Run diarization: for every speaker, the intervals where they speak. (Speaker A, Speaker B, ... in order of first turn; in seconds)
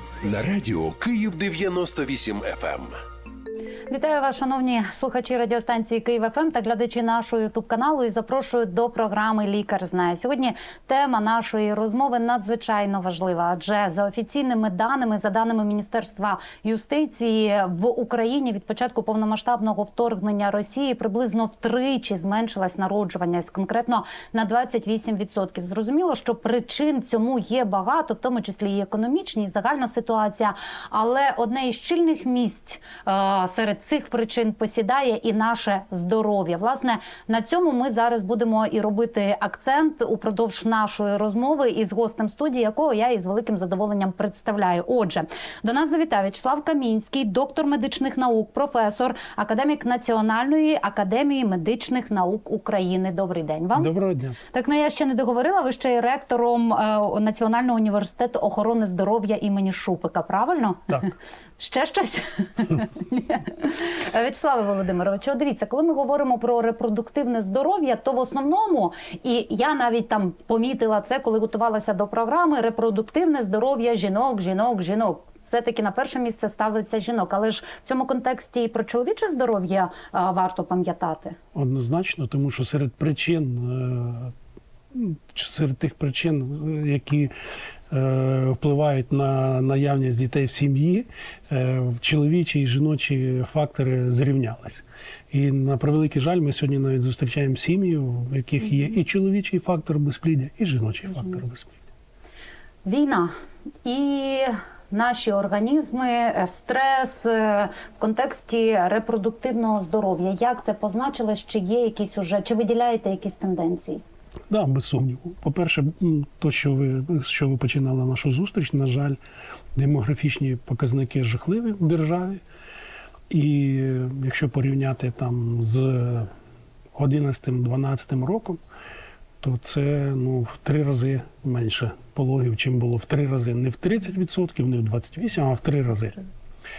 Speaker A: 0.2-3.0
Speaker B: 3.9-53.9, 54.5-81.4, 102.8-103.3, 103.8-114.0
Speaker C: 53.8-54.4, 81.5-84.3, 84.9-87.3, 87.9-101.8, 114.5-119.2, 119.8-122.4, 123.3-126.3, 126.9-128.6, 129.4-136.2